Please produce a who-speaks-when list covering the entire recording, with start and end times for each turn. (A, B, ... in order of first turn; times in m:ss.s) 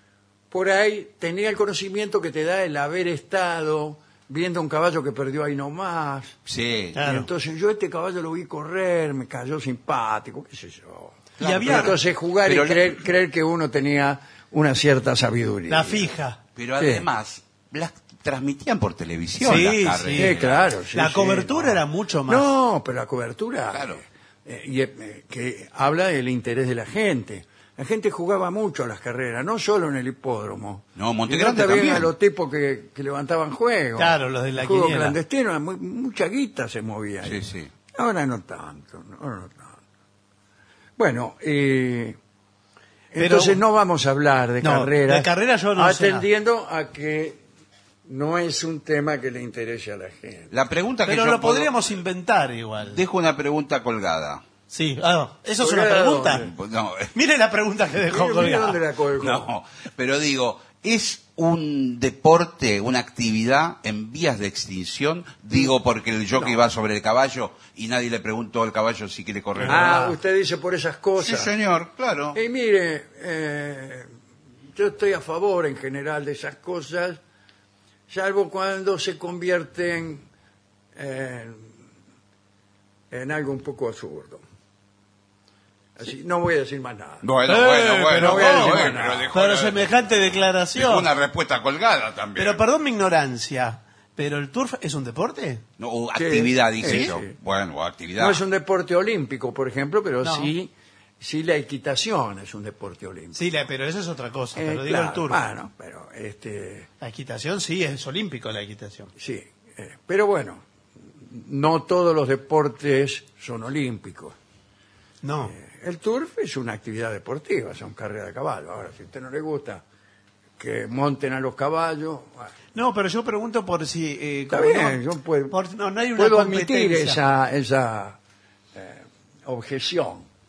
0:00.5-0:06.4 A
0:06.4-0:07.0 B
0:06.9-0:07.3 C
0:07.0-0:16.1 A
0:11.4-0:13.0 B
0:11.4-0:12.0 C
0:15.7-0:16.4 C
0:16.6-0:20.7 B
0:16.8-0:17.0 A
0:19.4-0:20.4 C
0:20.2-0:39.8 A
0:20.9-0:22.5 C
0:23.7-0:24.0 B
0:31.0-0:32.1 B
0:34.0-0:35.2 C
0:37.2-0:37.7 B
0:41.0-0:42.2 A
0:43.1-0:47.4 A
0:43.2-0:43.6 C
0:44.6-0:46.2 C
0:48.1-0:50.5 A
0:50.5-0:51.8 B
0:51.0-0:53.0 C
0:52.8-0:54.4 B
0:54.7-0:56.5 C
0:55.6-0:56.5 A
0:56.3-0:57.1 B
0:57.1-0:58.8 C
0:58.0-0:59.5 A
0:59.2-1:10.0 B
1:09.6-1:10.2 C
1:09.6-1:11.5 A
1:11.2-1:12.4 B
1:12.3-1:14.1 A
1:14.7-1:17.2 A
1:18.1-1:20.2 A
1:21.0-1:21.7 A
1:23.1-1:24.4 A
1:26.0-1:27.3 A
1:27.2-1:32.6 B
1:27.5-1:31.1 C
1:28.1-1:29.3 A
1:32.4-1:35.6 C
1:35.8-1:38.4 B
1:36.2-1:37.3 A
1:38.2-1:43.4 A
1:40.2-1:40.5 C
1:43.3-1:45.4 C
1:44.6-1:46.9 A
1:47.0-1:49.1 C
1:49.2-1:50.6 A
1:51.2-1:54.3 A
1:55.2-1:55.5 C
1:55.5-1:59.8 A
2:00.6-2:02.5 A
2:02.7-2:05.0 C
2:04.5-2:05.6 A
2:05.5-2:07.2 C
2:06.2-2:08.2 A
2:08.7-2:10.2 A